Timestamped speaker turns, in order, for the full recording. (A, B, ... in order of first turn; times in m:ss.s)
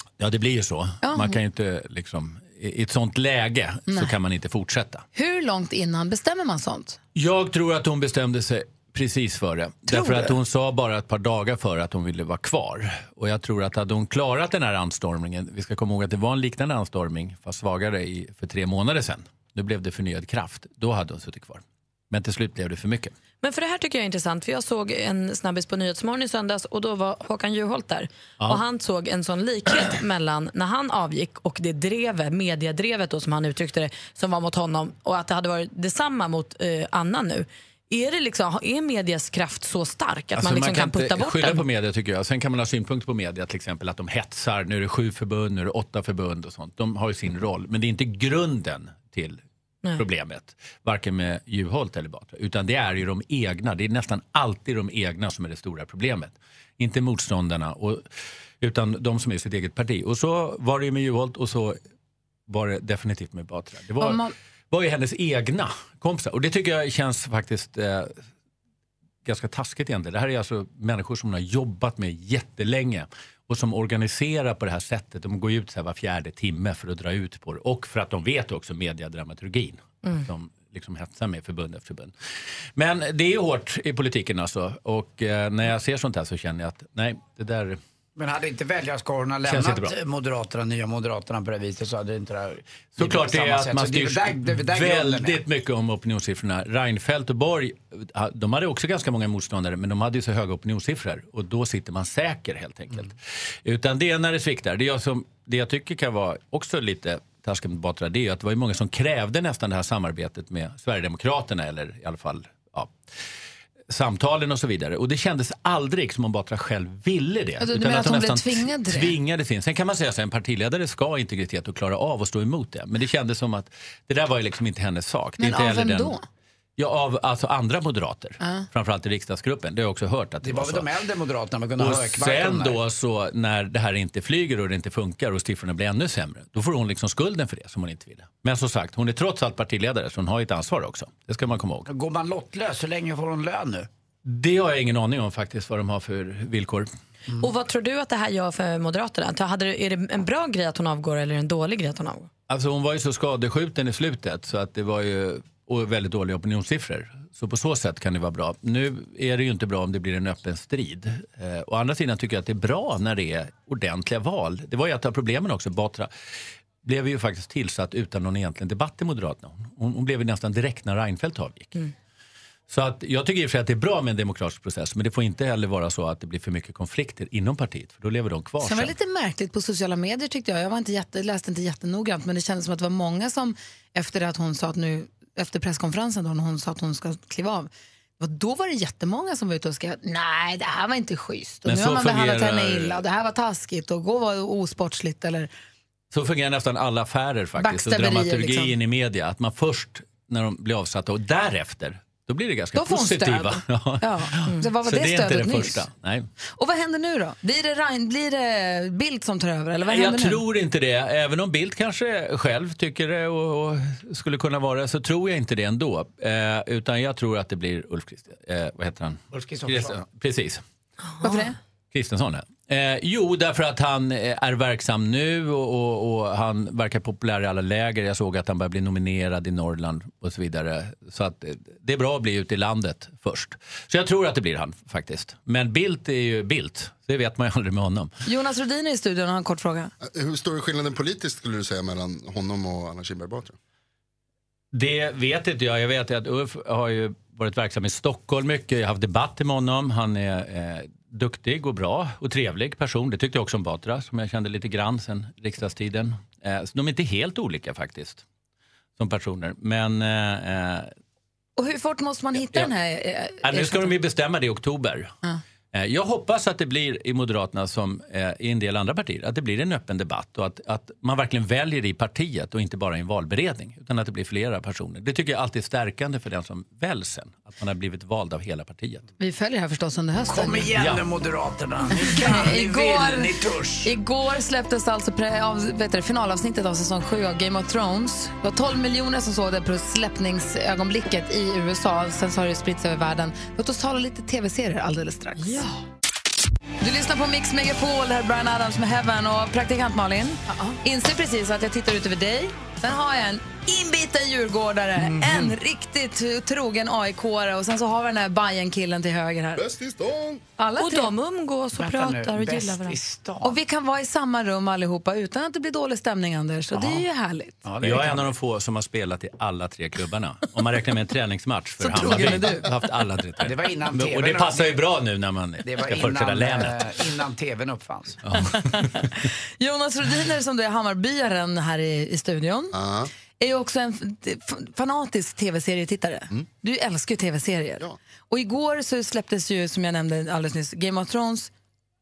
0:00.2-0:05.0 A
0:01.0-0:01.3 B
0:03.9-0:04.1 B
0:05.1-0:07.0 B
0:07.1-0:23.1 A
0:09.9-0:10.3 B
0:23.4-0:41.6 C
0:40.3-0:49.4 A
0:49.9-0:58.0 A
0:58.6-1:01.8 A
1:02.5-1:08.1 A
1:04.0-1:04.3 B
1:09.2-1:22.1 A
1:22.8-1:27.8 A
1:28.2-1:35.4 D
1:29.4-1:29.9 A
1:33.0-1:53.0 A
1:53.9-2:06.2 A
1:57.6-1:59.2 B
2:05.4-2:06.2 B
2:06.8-2:10.9 A
2:08.4-2:08.6 B
2:10.4-2:12.8 D
2:11.8-2:21.9 A
2:21.9-2:23.9 D
2:24.2-2:26.9 A
2:27.4-2:32.3 C
2:32.5-2:46.1 A
2:46.8-2:51.7 A
2:52.7-2:58.9 A
2:58.6-3:15.5 B
3:11.6-3:13.0 A
3:16.1-3:26.3 A
3:17.6-3:18.8 B
3:22.7-3:25.8 B
3:26.6-3:30.4 B
3:29.9-3:40.6 A
3:39.3-3:40.0 D
3:41.1-3:41.5 C
3:41.2-3:41.5 B
3:41.9-3:58.1 A
3:58.2-3:59.9 B
4:00.0-4:03.5 E
4:04.7-4:18.2 A
4:19.0-4:20.9 A
4:21.6-4:24.0 B
4:22.4-4:22.7 A
4:23.4-4:25.1 A
4:25.7-4:39.1 A
4:39.2-4:40.7 B
4:40.2-4:43.9 D
4:40.7-4:41.0 A
4:42.0-4:43.3 B
4:43.8-4:55.6 B
4:55.4-4:55.8 C
4:56.8-5:09.6 B
5:00.5-5:00.8 C
5:05.0-5:05.5 D
5:09.6-5:10.4 E
5:10.6-5:11.1 B
5:10.8-5:13.0 C
5:11.8-5:13.6 D
5:13.4-5:17.6 B
5:16.7-5:17.0 D
5:17.6-5:18.3 D
5:17.8-5:27.0 A
5:21.8-5:22.7 B
5:23.4-5:24.9 D
5:25.6-5:28.2 D
5:28.2-5:29.1 A
5:28.8-5:32.7 B
5:32.7-5:33.1 E
5:33.4-5:41.5 B